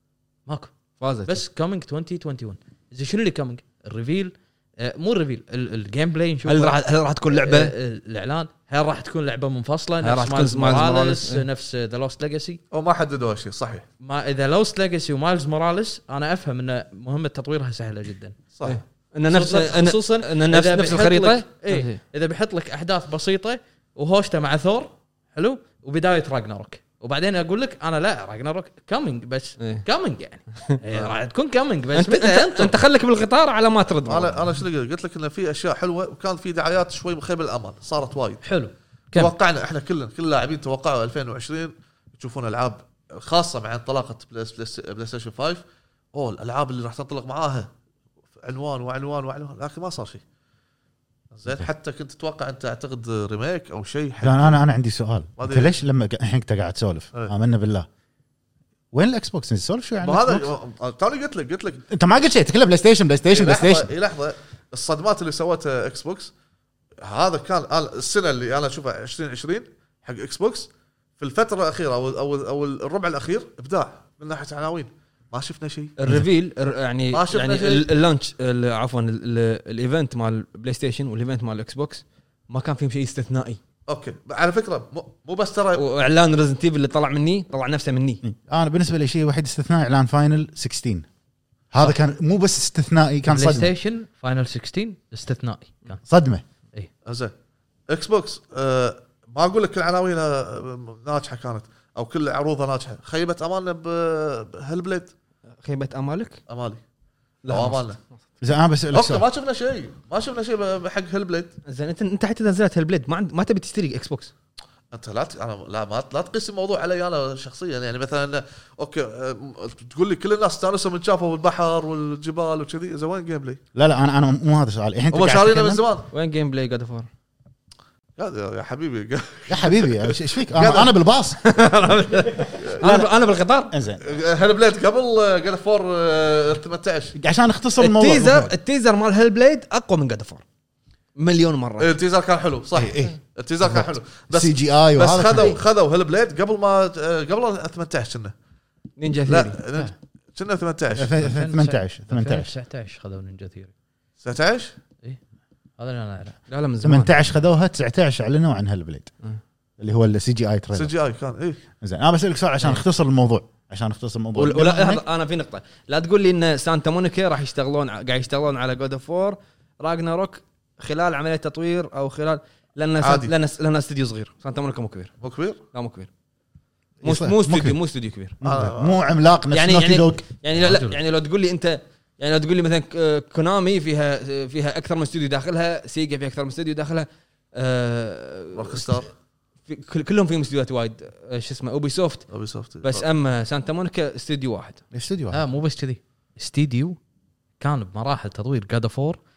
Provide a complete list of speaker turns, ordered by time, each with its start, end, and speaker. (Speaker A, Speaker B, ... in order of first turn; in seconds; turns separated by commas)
Speaker A: 0.5-0.7, Speaker B: 1.0-1.4, Speaker A: 1.2-12.6, Speaker B: 6.5-7.7, Speaker B: 10.0-11.4, Speaker C: 12.7-13.9, Speaker A: 14.0-18.4, Speaker C: 18.6-18.8, Speaker B: 18.6-22.0, Speaker A: 19.3-32.8, Speaker B: 30.5-30.8, Speaker B: 31.9-34.5, Speaker C: 34.1-38.4, Speaker A: 38.4-39.3, Speaker C: 39.1-47.7, Speaker C: 48.4-50.2, Speaker C: 51.3-54.6, Speaker D: 54.2-57.9, Speaker C: 55.4-55.7, Speaker D: 58.9-60.5, Speaker C: 60.0-61.8, Speaker D: 61.9-63.9, Speaker C: 63.3-66.3, Speaker C: 67.0-75.9, Speaker B: 76.0-83.6, Speaker C: 77.1-77.9, Speaker C: 83.9-85.8, Speaker B: 85.8-88.2, Speaker D: 88.2-91.1, Speaker D: 91.7-93.7, Speaker A: 93.3-96.0, Speaker D: 96.1-96.4, Speaker C: 97.1-97.3, Speaker C: 97.9-105.1, Speaker B: 105.6-106.4, Speaker C: 106.5-106.8, Speaker B: 107.4-108.2, Speaker C: 107.5-108.0, Speaker D: 108.4-109.3, Speaker C: 108.9-111.5, Speaker B: 111.7-114.3, Speaker C: 114.9-123.6, Speaker D: 123.8-125.8, Speaker C: 125.1-126.1, Speaker B: 126.1-127.1, Speaker C: 128.2-130.9, Speaker D: 129.5-131.4, Speaker B: 131.4-133.7, Speaker C: 132.6-132.9, Speaker D: 132.8-133.1, Speaker D: 133.7-134.0, Speaker C: 134.0-137.2, Speaker D: 137.2-138.5, Speaker B: 137.8-140.4, Speaker B: 141.2-141.9, Speaker C: 141.8-148.3, Speaker D: 142.8-145.6, Speaker B: 149.0-149.6, Speaker C: 149.3-151.3, Speaker D: 151.0-152.5, Speaker A: 151.2-153.7, Speaker C: 154.2-154.7, Speaker A: 155.8-156.4, Speaker B: 156.5-157.1, Speaker D: 156.8-159.1, Speaker D: 159.8-160.9, Speaker C: 160.7-161.6, Speaker D: 161.8-165.0, Speaker B: 164.3-175.1, Speaker C: 173.0-173.3, Speaker C: 175.2-175.6, Speaker B: 175.7-176.1, Speaker D: 177.0-177.8, Speaker B: 177.0-178.4, Speaker D: 178.4-180.2, Speaker C: 178.4-179.0, Speaker B: 179.5-189.0, Speaker A: 180.6-181.0, Speaker C: 188.5-189.1, Speaker B: 189.7-192.3, Speaker C: 192.3-193.1, Speaker B: 192.8-194.8, Speaker D: 194.9-195.4, Speaker A: 195.3-197.0, Speaker A: 197.6-199.2